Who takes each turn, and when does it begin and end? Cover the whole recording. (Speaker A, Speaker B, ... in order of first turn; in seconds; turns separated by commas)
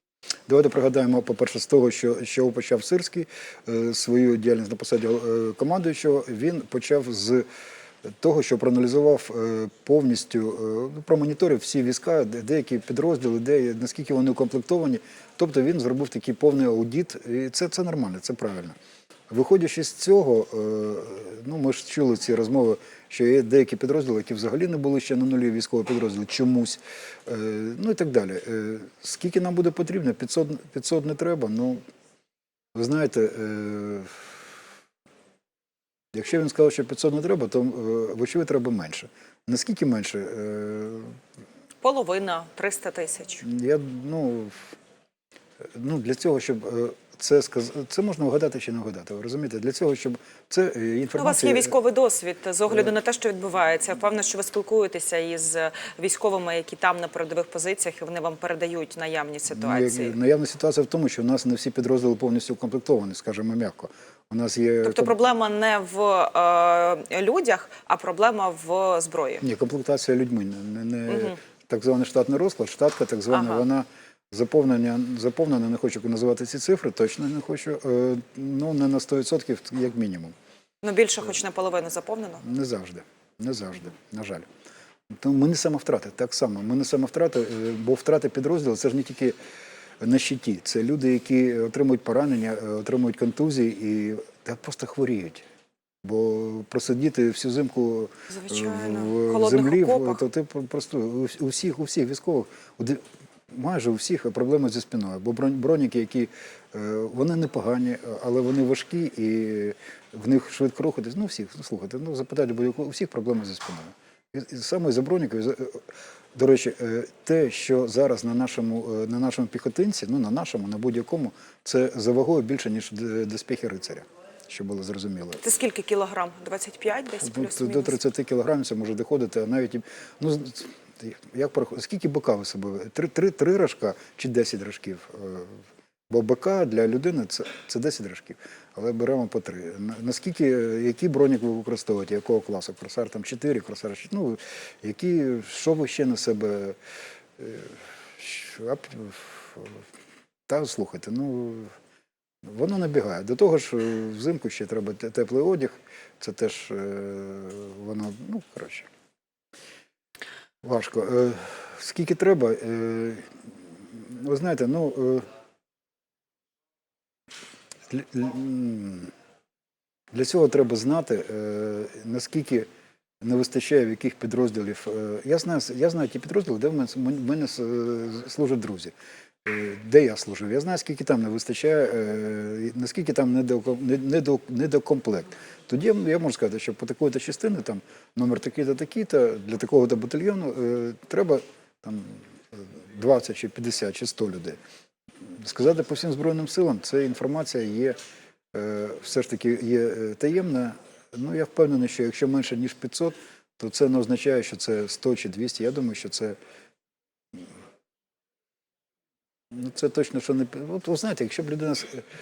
Speaker A: 0.5-7.4, Speaker A: 8.2-18.8, Speaker A: 19.3-31.8, Speaker A: 32.7-34.3, Speaker A: 36.1-41.1, Speaker B: 41.8-43.5, Speaker A: 43.4-44.7, Speaker A: 45.7-51.7, Speaker B: 51.2-60.1, Speaker A: 59.5-65.1, Speaker B: 64.8-69.4, Speaker A: 69.4-80.3, Speaker B: 71.1-71.4, Speaker B: 73.3-73.7, Speaker B: 80.8-82.4, Speaker A: 82.4-84.5, Speaker A: 85.1-89.3, Speaker A: 90.0-95.4, Speaker A: 96.0-125.4, Speaker B: 98.3-100.2, Speaker B: 125.4-128.0, Speaker A: 127.1-135.6, Speaker A: 136.1-146.8, Speaker A: 147.4-149.8, Speaker A: 150.5-151.7, Speaker A: 152.4-158.9, Speaker A: 160.6-165.3, Speaker A: 167.9-169.1, Speaker A: 170.1-172.7, Speaker A: 173.2-178.9, Speaker A: 179.4-194.6, Speaker A: 195.3-198.0, Speaker A: 198.5-206.4, Speaker A: 209.5-212.1